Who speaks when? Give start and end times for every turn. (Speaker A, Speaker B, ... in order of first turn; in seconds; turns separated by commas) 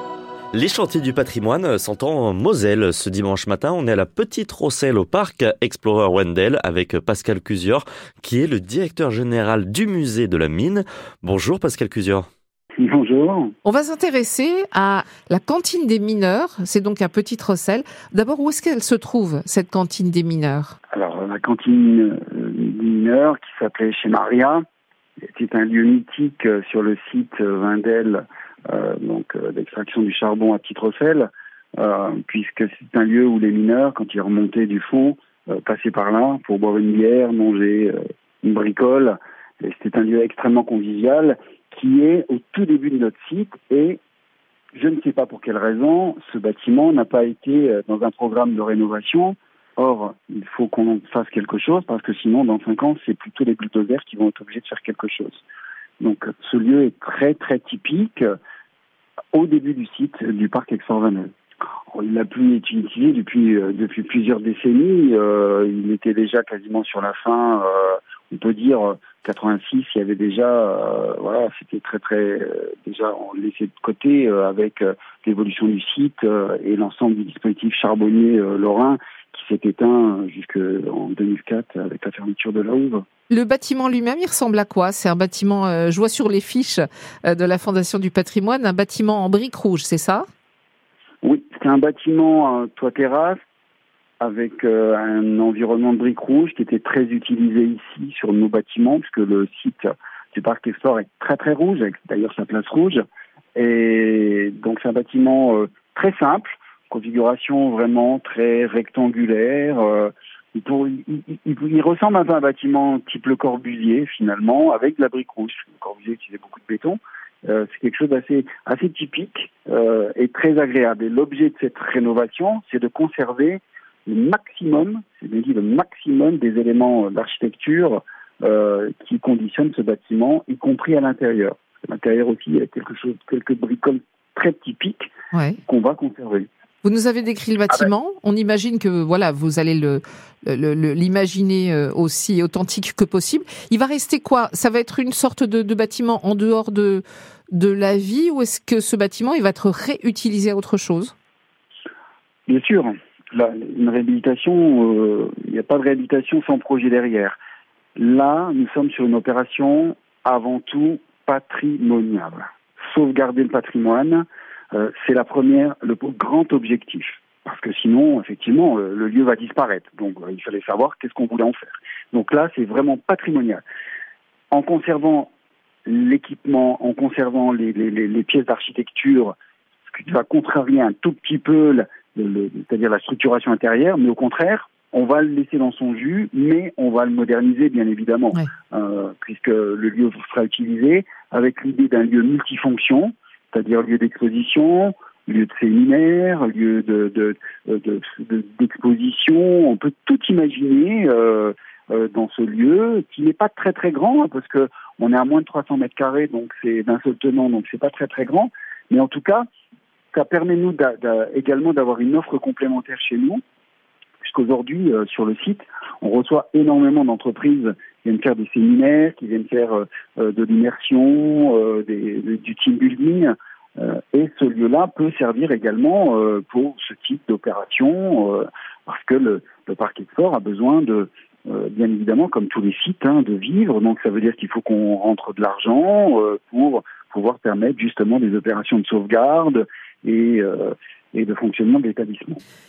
Speaker A: 0.5-12.3, Speaker B: 12.8-13.5, Speaker C: 13.6-20.8, Speaker B: 20.9-24.6, Speaker B: 25.3-44.0, Speaker B: 44.7-55.4, Speaker B: 56.0-58.3, Speaker B: 59.3-61.3, Speaker B: 61.9-83.0, Speaker C: 83.3-90.3, Speaker B: 91.2-93.4, Speaker B: 94.2-103.0, Speaker B: 103.6-135.1, Speaker C: 135.3-135.6, Speaker B: 135.7-136.5, Speaker C: 136.8-151.1, Speaker B: 152.5-157.4, Speaker B: 158.0-173.6, Speaker B: 174.5-175.3, Speaker B: 175.9-179.3, Speaker B: 179.9-209.5, Speaker B: 210.1-213.4, Speaker B: 214.2-242.4